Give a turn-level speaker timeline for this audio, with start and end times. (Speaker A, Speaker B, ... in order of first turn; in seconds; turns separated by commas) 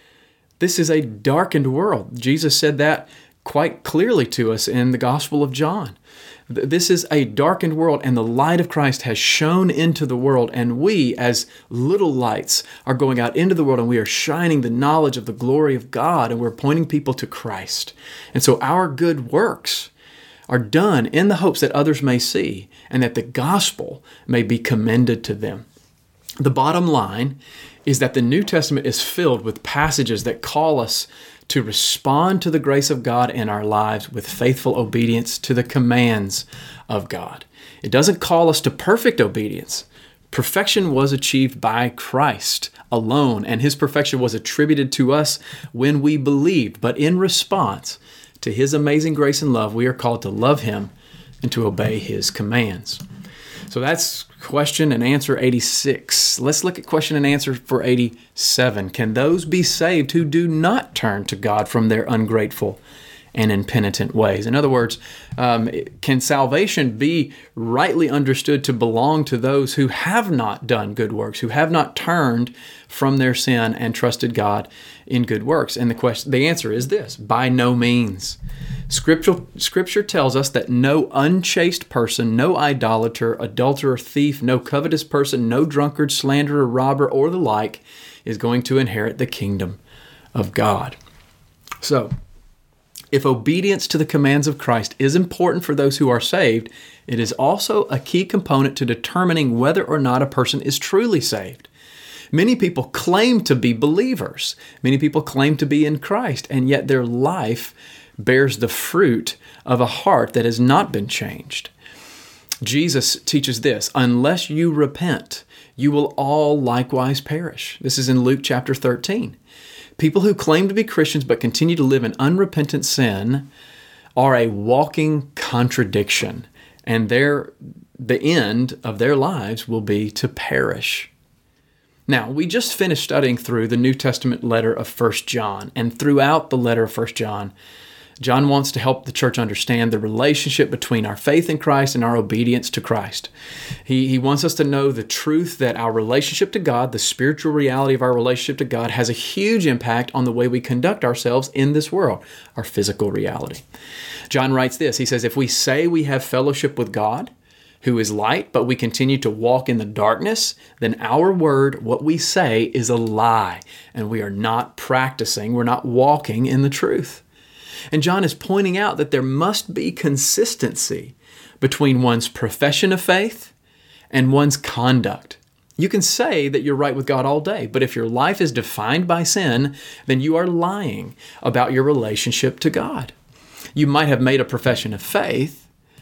Speaker A: 0.6-6.0, Speaker A: 6.5-19.9, Speaker A: 20.5-25.6, Speaker A: 26.4-50.9, Speaker A: 51.4-53.0, Speaker A: 53.7-62.8, Speaker A: 63.3-78.4, Speaker A: 78.9-89.8, Speaker A: 90.3-91.0, Speaker A: 91.8-92.1, Speaker A: 93.1-101.7, Speaker A: 102.3-111.7, Speaker A: 112.6-119.4, Speaker A: 120.0-123.5, Speaker A: 124.2-131.1, Speaker A: 132.1-137.5, Speaker A: 138.2-143.3, Speaker A: 143.8-153.6, Speaker A: 154.3-157.3, Speaker A: 157.8-167.2, Speaker A: 167.9-173.5, Speaker A: 174.1-183.1, Speaker A: 183.8-185.7